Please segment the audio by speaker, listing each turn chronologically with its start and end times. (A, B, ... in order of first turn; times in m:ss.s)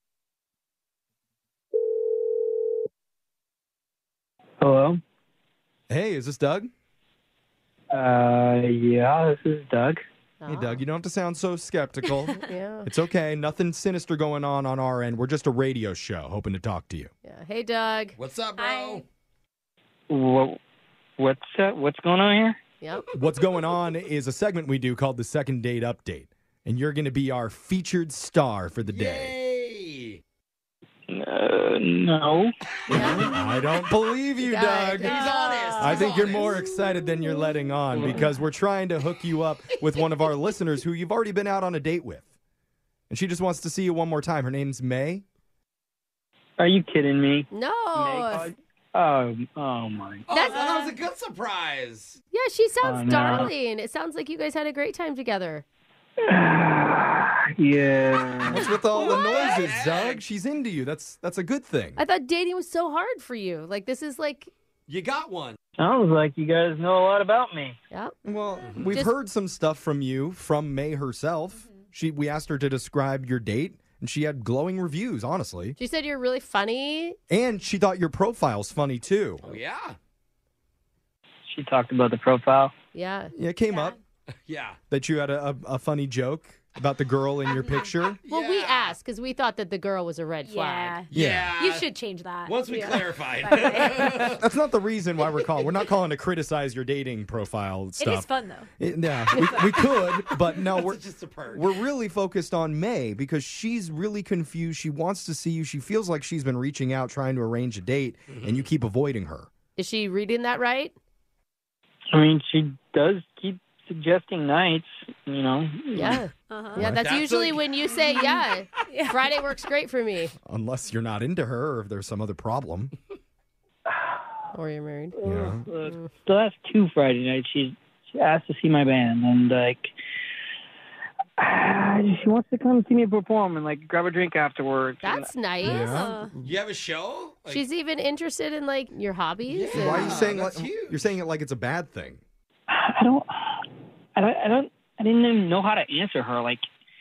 0:04.6-0:05.0 A
0:05.9-0:06.7 B
0:07.9-0:10.0 A
0:10.4-0:10.8 C
0:10.5-0:17.1 B
0:12.3-0:12.9 C
0:17.2-0:18.2 C
0:18.2-0:19.0 D
0:18.6-0:19.0 E
0:20.1-0:20.6 A
0:21.2-0:22.6 A
0:22.8-0:23.1 C
0:23.1-0:29.3 B
0:28.9-0:30.2 D
0:31.1-0:32.5 A
0:32.9-0:33.3 D
0:32.9-0:33.3 C
0:32.9-0:35.2 B
0:34.4-0:36.0 C
0:35.0-0:36.7 D
0:35.8-0:42.2 B
0:37.9-0:38.2 A
0:43.1-0:45.2 B
0:46.6-0:50.4 A
0:47.5-0:48.5 C
0:50.3-0:52.2 D
0:50.3-0:50.9 C
0:52.3-0:55.6 C
0:52.8-0:53.5 A
0:56.3-0:58.7 A
0:58.4-1:02.0 B
0:58.8-0:59.6 C
0:59.0-1:00.2 D
1:02.0-1:04.5 C
1:04.9-1:05.6 D
1:05.8-1:07.8 A
1:08.2-1:15.8 B
1:08.6-1:09.0 D
1:15.8-1:17.2 C
1:17.3-1:19.6 B
1:19.4-1:20.0 D
1:21.5-1:22.7 A
1:22.9-1:23.3 C
1:23.3-1:23.9 B
1:23.7-1:23.9 E
1:24.5-1:24.8 D
1:24.9-1:28.2 B
1:27.5-1:27.8 E
1:28.2-1:29.0 D
1:28.3-1:31.0 C
1:30.4-1:31.0 E
1:31.1-1:31.9 D
1:31.1-1:31.6 B
1:31.6-1:34.1 E
1:32.4-1:34.4 D
1:34.2-1:49.5 B
1:38.0-1:38.7 E
1:40.4-1:41.7 D
1:48.3-1:48.7 D
1:49.8-1:50.9 C
1:52.1-1:56.2 A
1:55.9-2:00.3 C
1:56.5-1:56.8 E
1:56.8-1:57.0 B
1:56.8-1:58.0 D
2:00.4-2:02.9 B
2:03.9-2:04.2 A
2:04.5-2:05.1 C
2:05.2-2:09.9 A
2:05.2-2:05.7 B
2:11.4-2:15.3 A
2:15.0-2:16.0 C
2:15.6-2:16.6 B
2:15.8-2:16.3 E
2:16.4-2:17.7 D
2:17.5-2:20.1 C
2:19.5-2:21.2 D
2:19.7-2:22.2 B
2:22.7-2:23.6 A
2:24.2-2:26.6 A